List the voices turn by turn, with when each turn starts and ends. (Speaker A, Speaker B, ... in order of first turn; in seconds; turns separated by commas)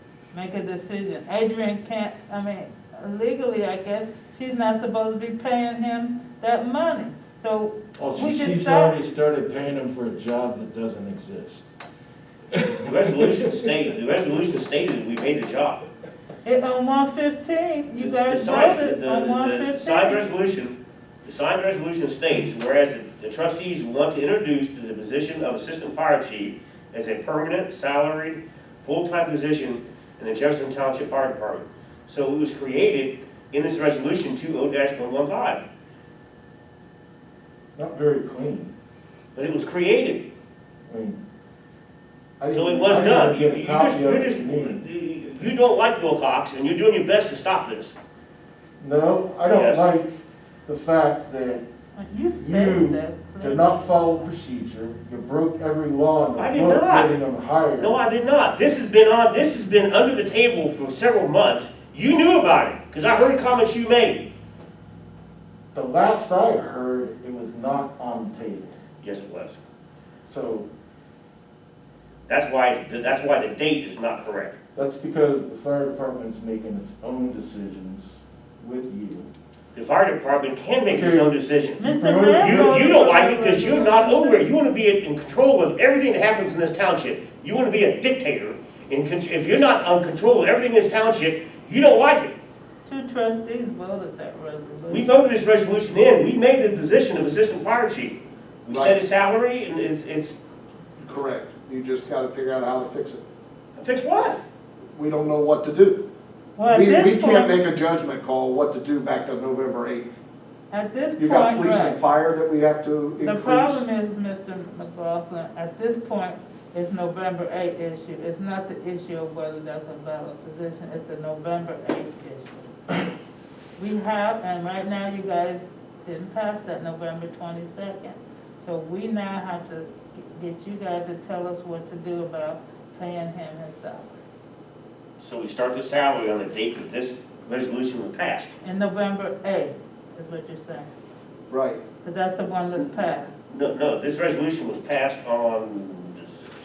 Speaker A: 0.3-8.9, Speaker B: 8.0-11.6, Speaker B: 12.5-13.4, Speaker C: 12.8-15.8, Speaker A: 16.4-20.3, Speaker C: 18.0-35.6, Speaker B: 37.8-38.7, Speaker C: 39.3-40.3, Speaker B: 40.9-41.2, Speaker B: 42.4-44.8, Speaker C: 42.5-48.0, Speaker B: 48.8-51.6, Speaker C: 49.5-49.9, Speaker A: 52.0-54.3, Speaker B: 52.4-58.0, Speaker C: 56.4-57.2, Speaker C: 57.8-64.3, Speaker B: 65.7-68.8, Speaker C: 69.0-69.6, Speaker B: 70.2-70.7, Speaker C: 72.3-74.6, Speaker B: 74.8-79.3, Speaker C: 79.7-92.3, Speaker B: 80.9-82.8, Speaker A: 81.8-84.5, Speaker A: 92.8-95.1, Speaker C: 94.9-100.4, Speaker D: 98.7-99.0, Speaker D: 101.0-103.2, Speaker C: 103.8-104.4, Speaker D: 104.9-106.0, Speaker A: 106.6-107.5, Speaker D: 106.6-110.1, Speaker A: 110.7-112.0, Speaker D: 111.2-113.9, Speaker A: 113.2-122.7, Speaker A: 123.8-134.1, Speaker C: 135.2-138.5, Speaker A: 138.6-140.9, Speaker D: 141.5-141.8, Speaker A: 142.0-143.3, Speaker C: 143.5-146.5